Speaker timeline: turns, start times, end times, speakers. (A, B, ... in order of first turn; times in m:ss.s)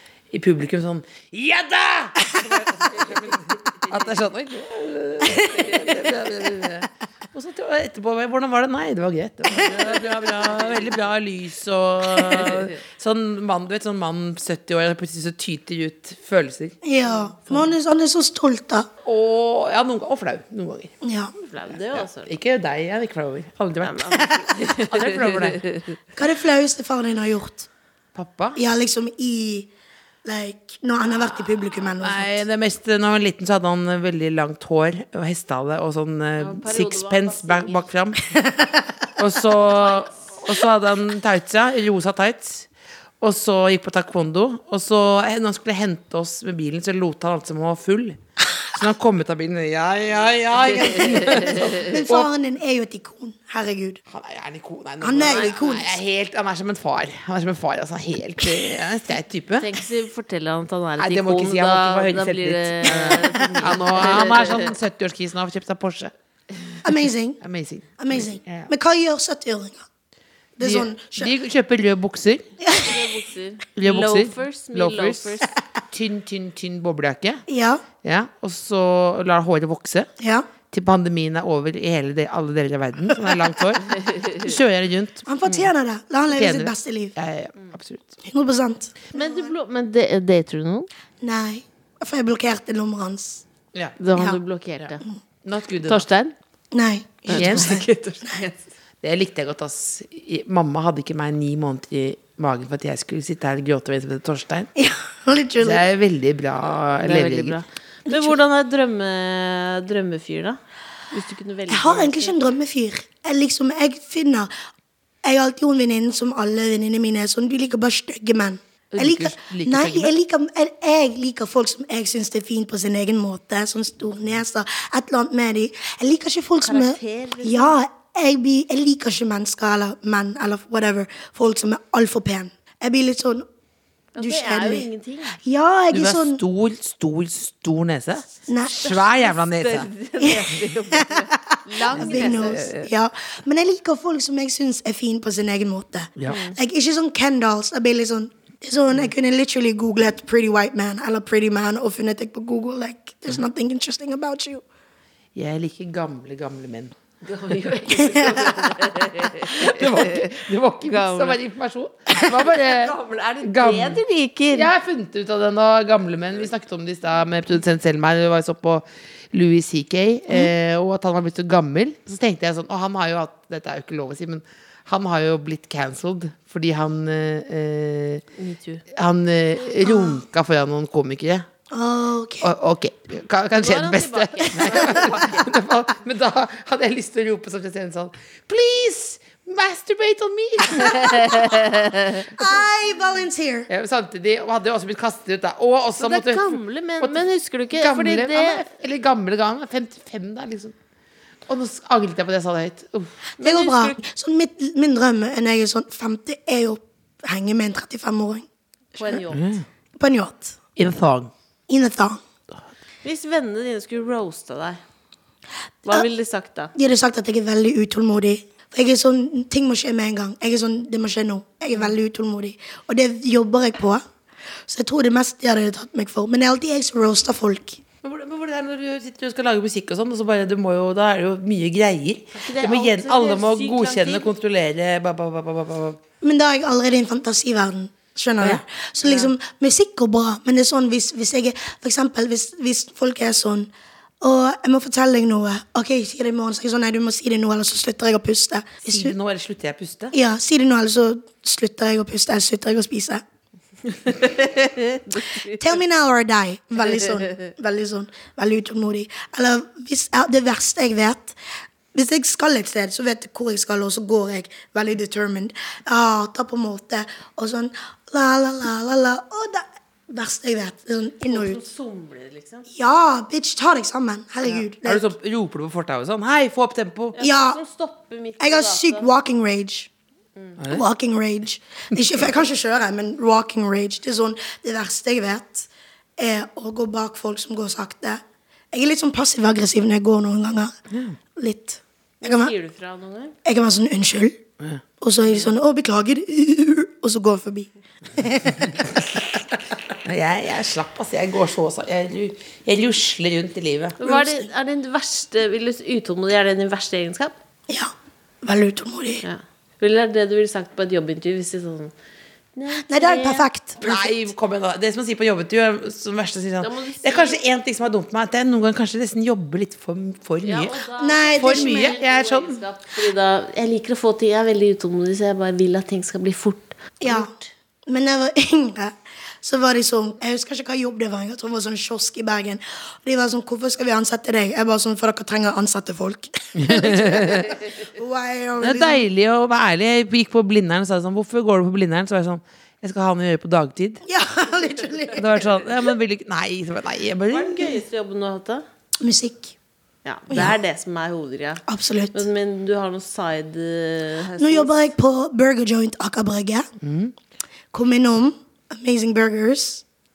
0:00.3-0:16.8 A
0:05.4-0:05.7 B
0:16.8-0:18.9 B
0:19.0-0:20.9 A
0:21.0-0:21.3 B
0:21.4-0:22.3 C
0:21.8-0:25.7 A
0:23.8-0:25.8 C
0:26.2-0:27.7 B
0:28.2-0:28.6 A
0:28.6-0:29.7 B
0:30.2-0:32.4 B
0:32.0-0:38.2 A
0:36.4-0:37.9 C
0:38.4-0:38.9 B
0:39.2-0:42.7 A
0:39.6-0:40.4 C
0:43.2-0:48.2 A
0:48.7-0:52.3 A
0:50.9-0:51.6 C
0:51.1-0:54.0 B
0:54.1-0:59.7 A
0:55.0-0:55.9 B
0:55.2-0:55.6 C
0:59.6-1:04.7 C
1:01.0-1:08.7 A
1:02.9-1:04.1 B
1:06.8-1:07.4 B
1:08.0-1:09.9 B
1:10.6-1:11.4 B
1:10.6-1:12.4 A
1:12.6-1:13.1 B
1:12.8-1:15.5 C
1:13.8-1:15.4 A
1:15.9-1:17.4 A
1:17.5-1:17.8 B
1:18.0-1:20.1 A
1:20.2-1:20.5 B
1:20.7-1:25.7 A
1:24.0-1:24.4 C
1:25.3-1:27.2 B
1:26.3-1:28.2 A
1:28.2-1:29.5 B
1:29.1-1:30.9 C
1:31.2-1:33.4 B
1:34.0-1:35.0 C
1:34.1-1:34.4 B
1:35.4-1:36.1 A
1:35.8-1:36.4 C
1:36.7-1:38.4 B
1:37.3-1:38.6 C
1:37.3-1:37.8 A
1:39.0-1:44.7 A
1:44.8-1:45.8 B
1:45.6-1:47.6 A
1:47.0-1:50.6 C
1:51.1-1:52.4 C
1:51.7-1:54.5 B
1:55.2-2:13.5 B
1:58.9-2:00.1 A
2:06.6-2:07.8 C
2:14.2-2:15.4 C
2:14.2-2:16.4 B
2:15.9-2:19.9 A
2:18.5-2:19.1 B
2:18.9-2:22.7 C
2:20.2-2:34.6 B
2:22.0-2:22.9 A
2:26.3-2:26.6 C
2:35.4-2:37.0 A
2:37.2-2:41.4 C
2:38.0-2:38.6 B
2:39.4-2:58.2 A
2:42.5-2:44.7 C
2:58.4-2:58.8 C
2:58.9-3:01.5 A
2:59.8-3:00.2 B
3:01.7-3:02.5 B
3:02.4-3:11.6 A
3:03.6-3:05.4 C
3:10.8-3:12.3 C
3:12.3-3:13.7 B
3:13.7-3:20.7 A
3:16.0-3:18.6 C
3:21.5-3:23.1 A
3:23.4-3:24.0 C
3:23.4-3:29.2 B
3:29.0-3:29.5 C
3:29.3-3:29.7 A
3:30.0-3:30.6 B
3:30.8-3:31.3 A
3:31.7-3:32.2 B
3:33.0-3:34.8 C
3:35.9-3:36.7 C
3:36.8-3:44.0 B
3:44.7-3:47.8 B
3:48.0-3:56.0 A
3:52.4-3:54.3 C
3:56.2-4:09.2 B
4:08.8-4:10.1 A
4:10.1-4:13.2 B
4:14.0-4:15.6 C
4:15.3-4:21.4 B
4:21.9-4:31.6 B
4:31.3-4:32.7 C
4:32.7-4:35.1 B
4:34.5-4:37.2 A
4:37.2-4:39.1 C
4:37.2-4:37.6 B
4:38.4-4:39.9 B
4:40.7-4:50.8 B
4:50.9-4:51.2 A
4:51.4-4:52.5 B
4:52.2-4:53.4 C
4:53.4-4:54.4 B
4:55.0-4:59.4 B
4:59.0-4:59.2 A
5:00.0-5:04.0 A
5:04.0-5:07.4 C
5:04.0-5:04.5 B
5:07.7-5:09.2 B
5:09.2-5:11.9 C
5:12.6-5:13.5 C
5:12.9-5:14.3 B
5:13.8-5:20.8 A
5:16.6-5:17.4 C
5:20.4-5:27.4 C
5:21.0-5:22.0 B
5:21.4-5:22.6 A
5:27.0-5:27.3 B
5:27.9-5:39.1 B
5:36.6-5:37.6 A
5:38.6-5:44.0 A
5:44.1-5:45.9 B
5:45.2-5:47.7 A
5:47.3-5:48.6 C
5:49.0-5:49.5 B
5:50.0-5:51.6 C
5:50.3-5:50.6 B
5:51.7-5:52.2 B
5:52.1-5:54.9 C
5:54.4-5:56.7 B
5:56.8-5:57.1 A
5:57.7-5:59.8 B